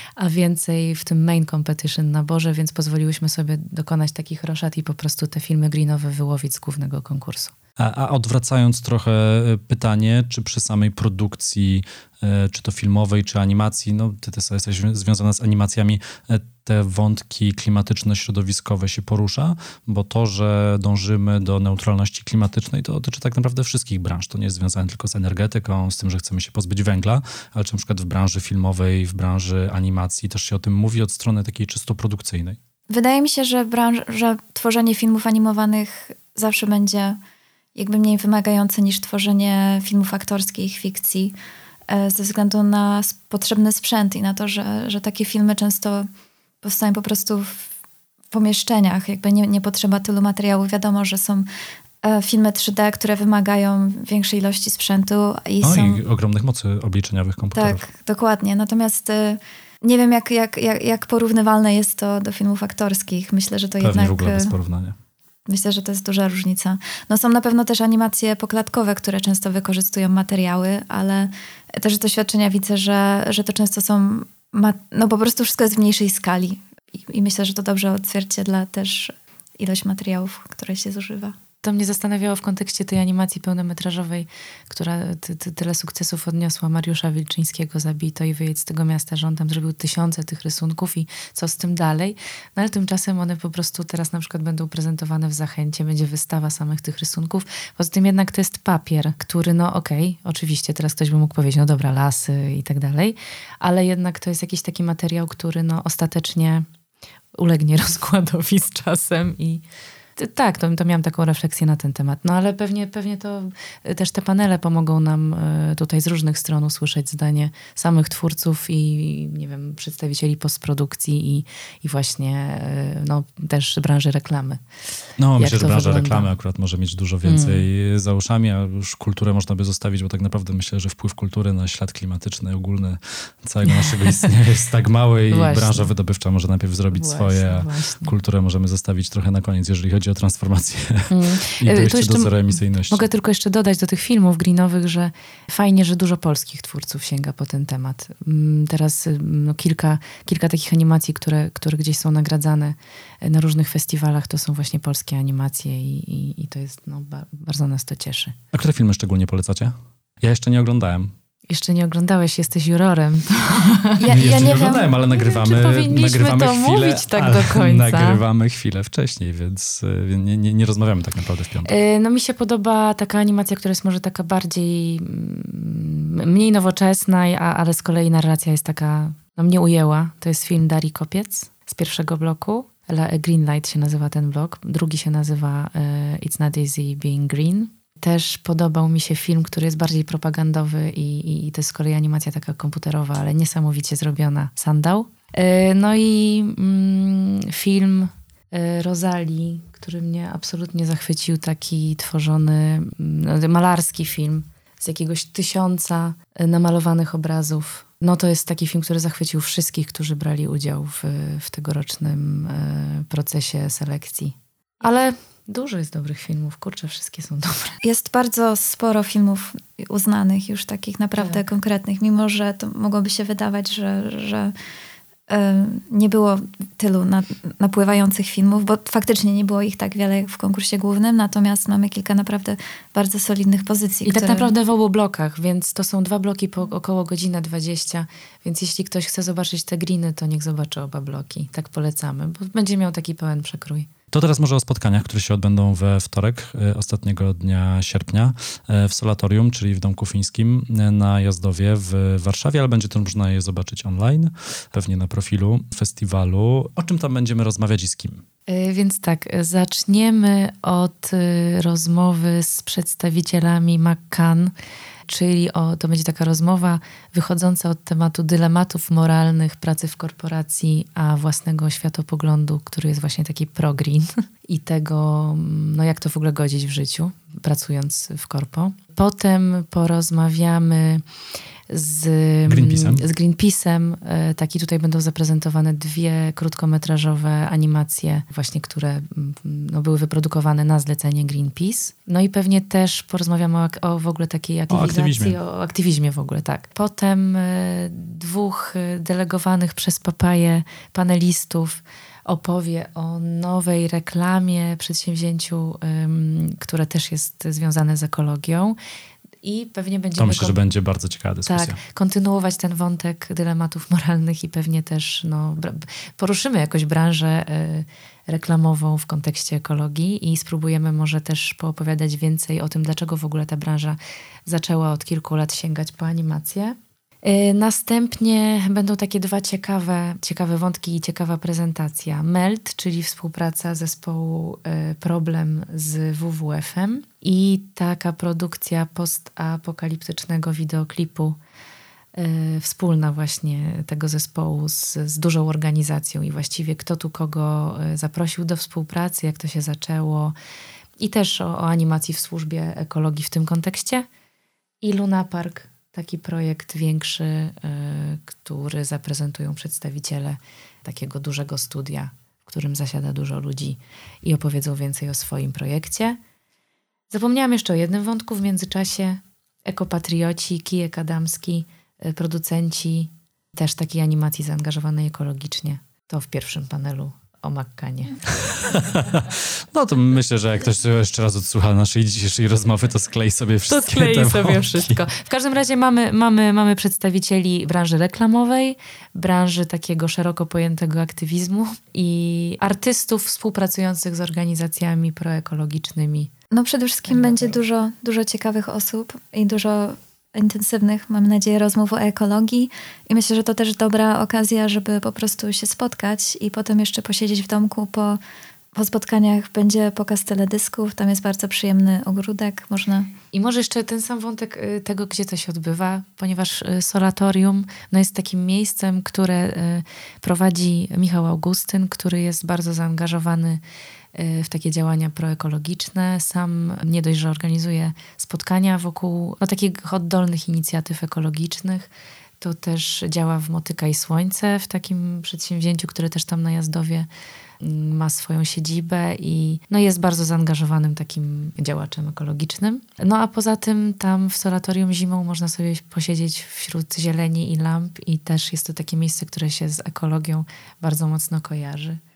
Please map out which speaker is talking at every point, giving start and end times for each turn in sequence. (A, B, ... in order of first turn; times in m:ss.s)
0:00.2-0:07.5 A
0:07.8-0:32.6 B
0:32.9-0:37.2 C
0:37.8-0:41.4 C
0:41.9-0:46.1 C
0:46.6-0:47.7 C
0:48.3-0:51.5 C
0:52.0-0:56.0 C
0:55.6-0:57.9 B
0:57.5-1:04.5 C
1:03.8-1:05.0 B
1:05.5-1:21.3 C
1:21.6-1:46.6 A
1:47.3-1:49.6 A
1:50.2-2:04.6 A
2:05.2-2:23.1 B
2:05.4-2:06.3 A
2:07.2-2:07.7 A
2:13.6-2:14.3 A
2:15.3-2:15.9 A
2:16.9-2:18.1 A
2:21.1-2:22.4 A
2:22.9-2:38.3 A
2:38.5-2:41.1 B
2:41.5-2:48.2 A
2:44.0-2:45.0 C
2:44.0-2:51.7 B
2:51.6-3:37.8 A
3:37.8-3:44.5 C
3:41.2-3:41.4 A
3:45.3-3:54.5 C
3:54.0-4:03.9 A
4:04.1-4:18.2 B
4:18.5-4:24.5 A
4:25.1-4:41.0 A
4:41.7-5:08.8 A
4:42.4-4:43.0 B
4:54.7-4:55.4 B
5:09.4-5:10.6 A
5:10.2-5:11.8 B
5:11.4-5:41.4 A
5:42.1-5:50.3 A
5:51.0-5:54.0 A
5:54.8-6:06.2 A
6:07.1-6:18.2 A
6:18.5-6:25.0 B
6:23.7-6:36.3 A
6:36.5-6:48.2 C
6:37.1-6:37.6 A
6:48.7-6:53.1 C
6:53.3-7:03.6 A
7:04.1-7:17.1 A
7:17.6-7:32.0 A